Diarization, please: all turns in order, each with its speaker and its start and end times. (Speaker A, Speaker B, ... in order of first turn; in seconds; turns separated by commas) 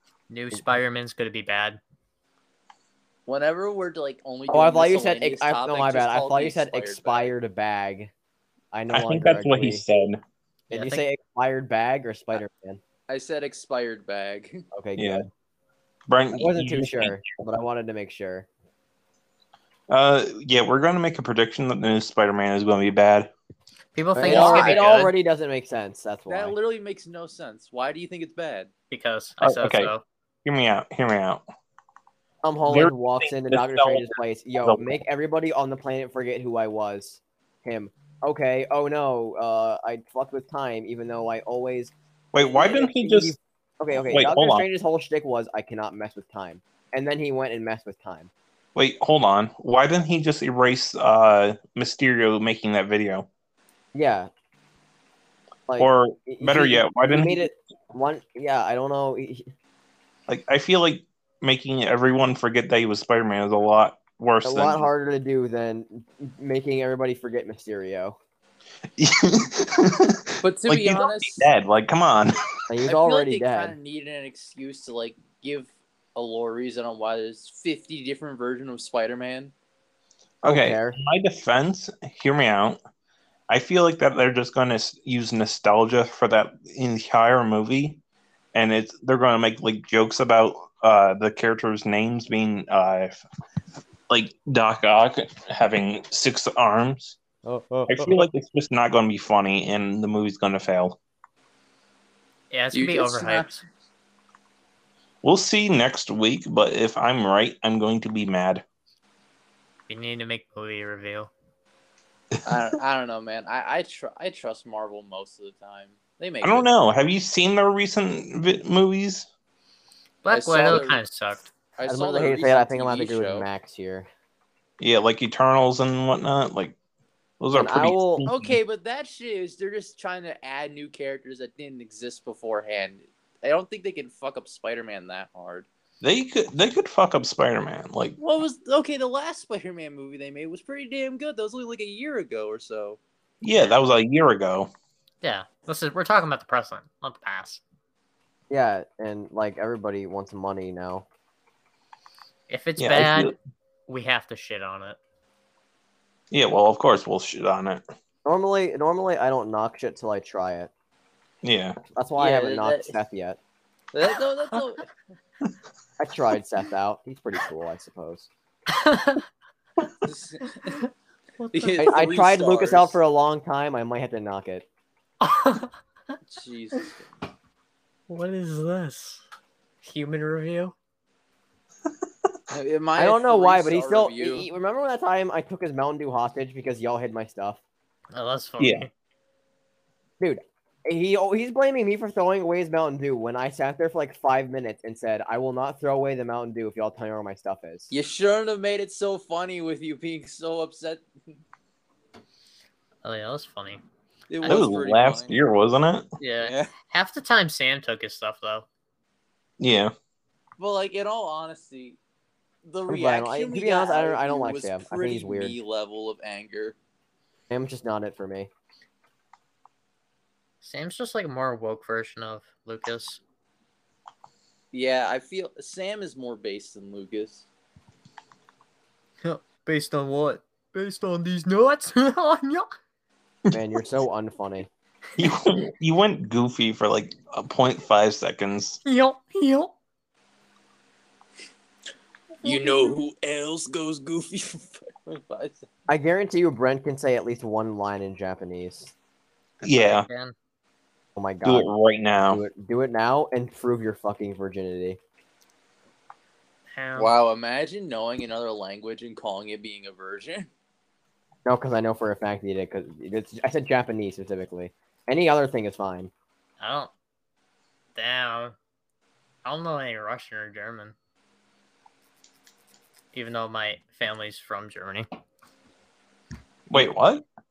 Speaker A: 0.3-1.8, Speaker B: 3.2-7.3, Speaker C: 4.5-8.1, Speaker C: 8.7-9.8, Speaker D: 8.9-10.2, Speaker C: 10.7-12.8, Speaker A: 10.7-11.1, Speaker B: 13.1-14.6, Speaker C: 14.7-15.3, Speaker D: 15.0-15.2, Speaker D: 16.1-17.2, Speaker C: 16.3-18.5, Speaker D: 19.9-23.3, Speaker A: 23.9-25.1, Speaker C: 24.1-26.6, Speaker B: 24.2-24.8, Speaker B: 26.3-28.7, Speaker A: 28.9-30.0, Speaker D: 29.4-29.9, Speaker D: 30.4-31.4, Speaker C: 32.4-48.3, Speaker D: 32.7-34.9, Speaker D: 42.3-43.3, Speaker D: 43.9-44.6, Speaker D: 48.7-53.3, Speaker C: 53.9-54.3, Speaker C: 55.7-59.5, Speaker D: 55.8-57.5, Speaker D: 60.3-64.9, Speaker C: 64.4-68.2, Speaker D: 69.0-72.4, Speaker B: 70.4-71.5, Speaker C: 72.7-73.8, Speaker B: 72.8-79.5, Speaker C: 80.4-81.0, Speaker D: 80.4-82.8, Speaker D: 83.5-88.0, Speaker D: 88.5-93.2, Speaker D: 94.1-97.2, Speaker C: 97.4-98.2, Speaker D: 97.9-101.0, Speaker A: 102.5-103.6, Speaker B: 102.7-103.5, Speaker D: 105.2-108.6, Speaker A: 109.9-111.3, Speaker B: 112.4-116.7, Speaker D: 116.4-119.3, Speaker A: 120.2-121.5, Speaker B: 120.3-121.0, Speaker B: 121.8-123.5, Speaker C: 121.8-124.1, Speaker D: 124.8-126.8, Speaker D: 127.4-128.6, Speaker C: 127.5-128.2, Speaker B: 128.2-135.7, Speaker D: 136.0-138.2, Speaker B: 138.2-143.0, Speaker D: 143.4-144.7, Speaker A: 143.5-143.8, Speaker A: 145.2-147.6, Speaker C: 148.5-151.1, Speaker A: 152.5-153.3, Speaker D: 152.8-153.3, Speaker A: 153.9-155.0, Speaker D: 156.3-157.8, Speaker C: 158.2-160.7, Speaker D: 161.4-161.8, Speaker C: 161.9-163.4, Speaker B: 162.2-163.0, Speaker B: 163.9-164.8, Speaker C: 166.0-168.3, Speaker A: 168.7-169.2, Speaker B: 170.0-170.8, Speaker A: 171.4-171.8, Speaker B: 171.5-172.9, Speaker C: 171.8-174.7, Speaker A: 175.2-175.7, Speaker B: 176.2-177.0, Speaker A: 178.1-179.2, Speaker A: 179.8-180.7, Speaker B: 182.5-184.5, Speaker C: 183.0-187.6, Speaker A: 188.1-188.9, Speaker D: 188.6-188.8, Speaker C: 190.2-197.9, Speaker B: 197.9-201.1, Speaker A: 203.0-203.8, Speaker B: 204.3-205.4, Speaker A: 204.4-204.7, Speaker D: 204.4-206.1, Speaker A: 206.2-208.7, Speaker B: 206.4-206.7, Speaker D: 209.6-209.9, Speaker B: 210.6-212.0, Speaker B: 212.6-216.8, Speaker C: 212.9-215.6, Speaker C: 217.5-218.5, Speaker A: 220.6-223.2, Speaker B: 224.7-227.4, Speaker A: 229.2-232.7, Speaker C: 233.5-234.7, Speaker D: 235.2-238.8, Speaker A: 238.8-239.7, Speaker B: 242.4-245.6, Speaker A: 242.4-243.0, Speaker C: 245.9-248.9, Speaker A: 249.6-250.3, Speaker D: 249.6-250.1, Speaker C: 251.1-251.7, Speaker D: 251.4-252.4, Speaker C: 252.3-255.0, Speaker A: 256.7-257.1, Speaker B: 257.0-260.5, Speaker C: 261.4-266.1, Speaker A: 266.6-266.9, Speaker A: 267.9-268.6, Speaker A: 269.4-270.9, Speaker A: 273.1-275.1, Speaker D: 276.7-277.2